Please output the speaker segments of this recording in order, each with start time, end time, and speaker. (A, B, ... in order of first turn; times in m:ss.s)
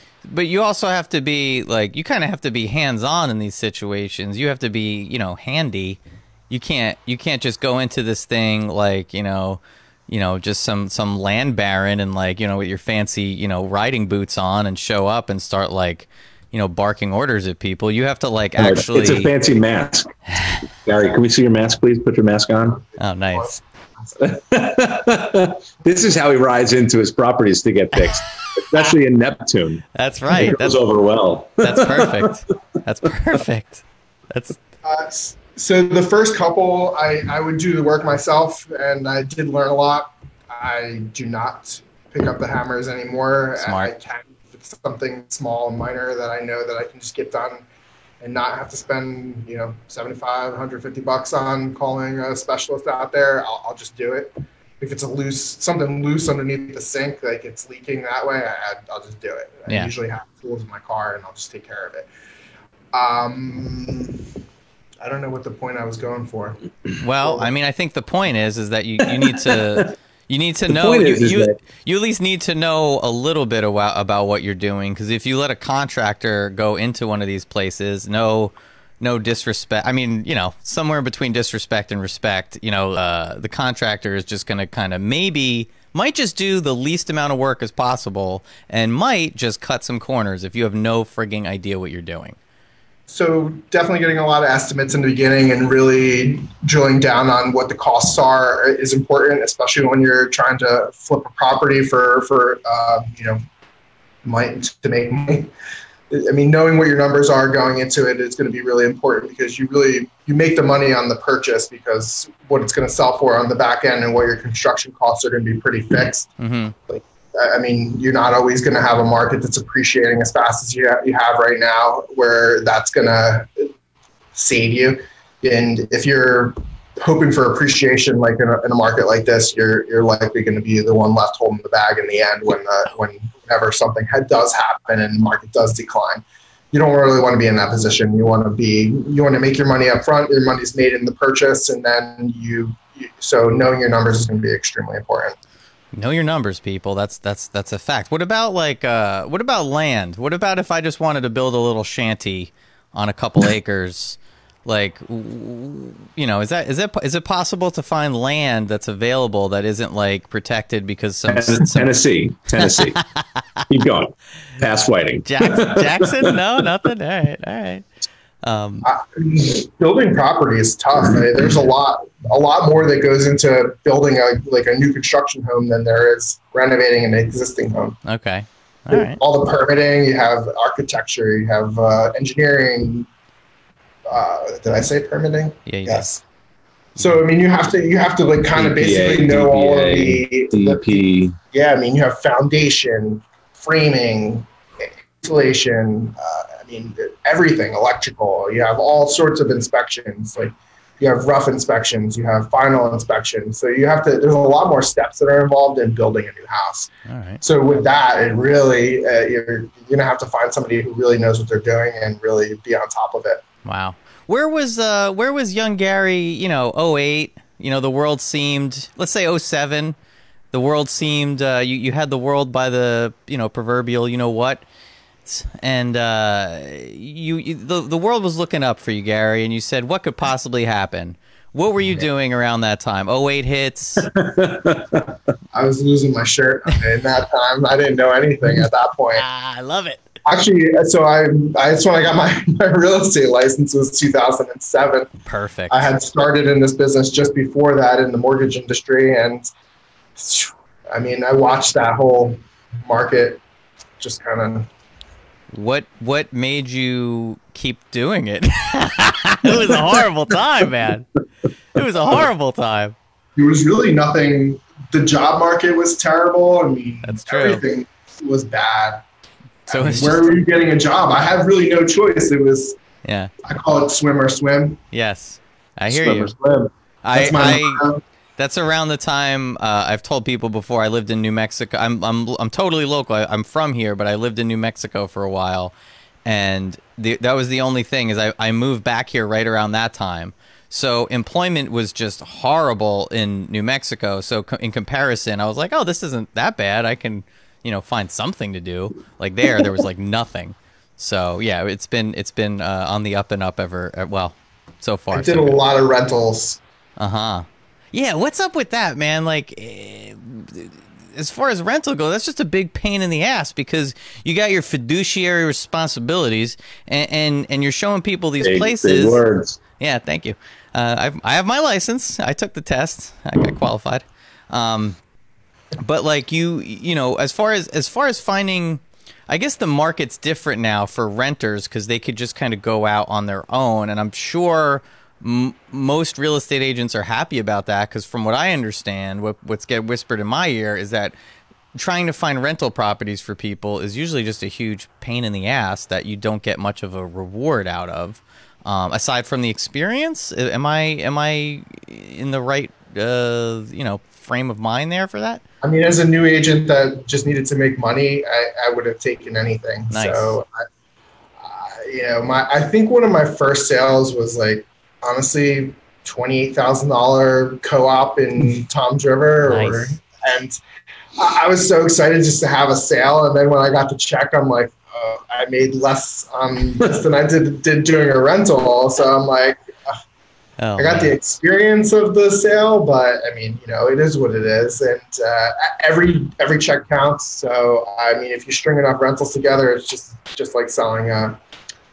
0:00.3-0:19.3 A
0:18.6-0:22.8 B
0:22.8-0:24.2 C
0:23.0-0:23.6 A
0:24.2-0:32.4 B
0:30.0-0:30.8 A
0:31.6-0:34.6 A
0:34.8-0:47.6 C
0:43.6-0:43.9 A
0:48.2-1:02.1 C
1:02.9-1:04.3 C
1:05.0-1:06.6 C
1:07.0-1:32.4 A
1:07.2-1:07.5 C
1:09.4-1:09.8 B
1:10.7-1:11.6 B
1:33.1-1:43.4 C
1:44.2-1:45.5 C
1:46.1-1:56.3 C
1:56.4-1:56.7 A
1:56.9-2:03.7 C
2:04.3-2:25.4 C
2:26.0-2:41.9 A
2:41.3-2:43.0 B
2:42.6-2:43.0 A
2:43.7-2:46.4 B
2:45.2-2:47.9 A
2:48.4-2:48.9 A
2:48.8-2:58.0 C
2:58.1-2:59.2 A
2:58.9-3:03.1 C
3:04.1-3:06.2 C
3:05.7-3:06.1 A
3:07.0-3:26.9 C
3:08.5-3:11.4 B
3:27.1-3:27.4 A
3:27.4-3:33.4 C
3:33.6-3:40.0 A
3:40.5-3:44.6 A
3:45.3-3:54.1 A
3:54.0-3:55.2 B
3:55.5-3:59.2 C
3:59.2-4:00.0 A
4:00.2-4:05.1 C
4:05.3-4:05.9 A
4:05.7-4:09.5 C
4:10.2-4:13.4 C
4:14.0-4:14.7 C
4:15.5-4:21.1 A
4:21.7-4:23.0 A
4:23.4-4:29.0 C
4:27.0-4:27.6 A
4:29.7-4:30.3 A
4:29.7-4:32.8 C
4:33.0-4:33.3 A
4:33.4-4:34.8 C
4:34.9-4:36.3 A
4:35.9-4:36.7 B
4:37.0-4:37.9 A
4:37.1-4:38.0 C
4:38.4-4:45.7 A
4:46.3-5:05.6 A
5:05.1-5:06.6 C
5:07.0-5:19.2 A
5:18.4-5:19.6 B
5:19.8-5:25.0 A
5:25.8-5:41.1 A
5:41.8-5:55.4 A
5:55.6-6:00.6 C
5:59.9-6:00.4 A
6:01.4-6:10.6 C
6:09.5-6:09.9 A
6:11.2-6:20.0 C
6:20.6-6:21.1 A
6:20.8-6:31.4 C